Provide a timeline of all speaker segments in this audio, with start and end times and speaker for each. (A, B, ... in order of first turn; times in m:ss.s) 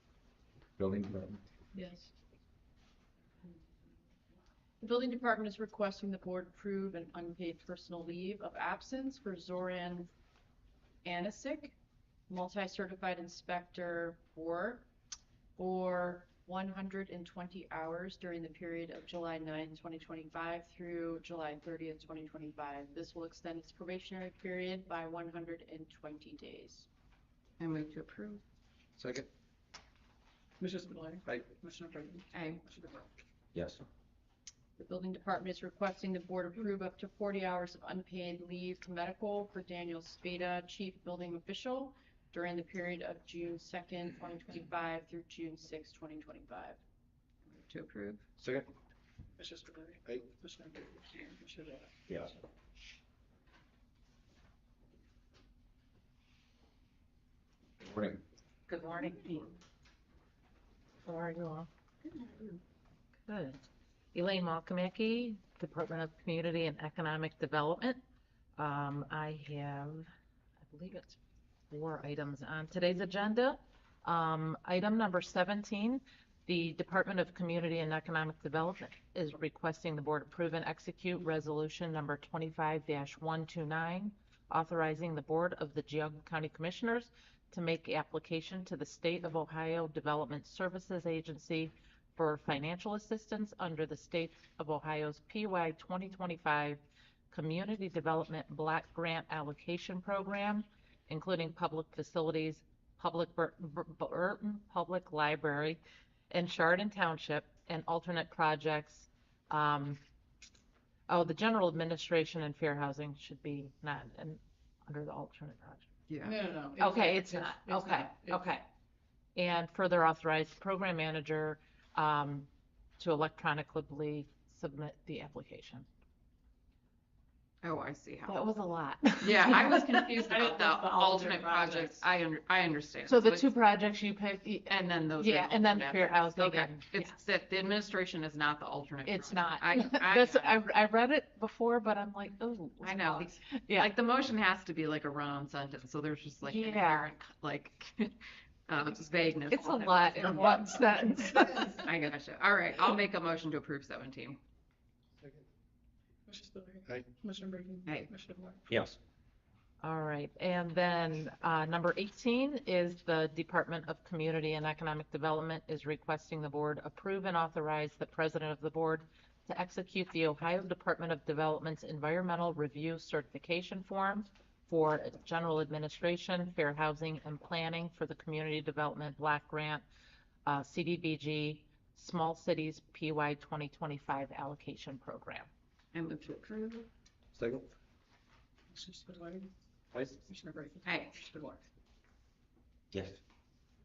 0:00.8-0:01.4 A
0:01.7-0:02.1 B
0:04.8-0:10.1 B
0:11.0-0:11.8 B
0:12.3-0:14.9 B
0:15.6-0:26.9 B
0:27.6-0:28.4 C
0:29.0-0:29.3 A
0:30.6-0:33.1 D
0:32.3-0:32.6 C
0:33.5-0:33.8 A
0:34.8-0:46.8 B
0:47.5-0:48.2 C
0:48.4-0:48.7 A
0:49.4-0:51.9 D
0:52.1-0:52.4 A
0:57.8-0:58.2 A
0:58.7-0:59.4 E
0:59.2-0:59.5 C
1:01.1-1:01.7 E
1:03.3-1:08.0 E
1:08.6-1:10.1 E
1:10.6-1:11.2 E
1:11.7-1:50.0 E
1:51.1-1:55.9 E
1:56.1-1:56.4 C
1:56.2-1:58.4 D
1:56.8-1:58.6 E
1:59.4-2:05.9 E
2:07.6-2:08.4 C
2:08.3-2:10.3 E
2:09.2-2:13.5 C
2:10.7-2:12.0 D
2:13.1-2:17.3 E
2:14.7-2:20.6 C
2:19.0-2:23.9 E
2:22.8-2:28.2 C
2:26.4-2:27.2 E
2:28.7-2:30.6 C
2:29.5-2:31.9 E
2:31.8-2:34.4 C
2:36.3-2:38.7 D
2:38.7-2:39.0 A
2:39.8-2:59.8 E
3:00.5-3:05.5 E
3:05.9-3:06.9 C
3:07.4-3:07.7 A
3:08.7-3:09.5 D
3:10.3-3:11.6 D
3:10.8-3:11.2 C
3:12.9-3:13.2 A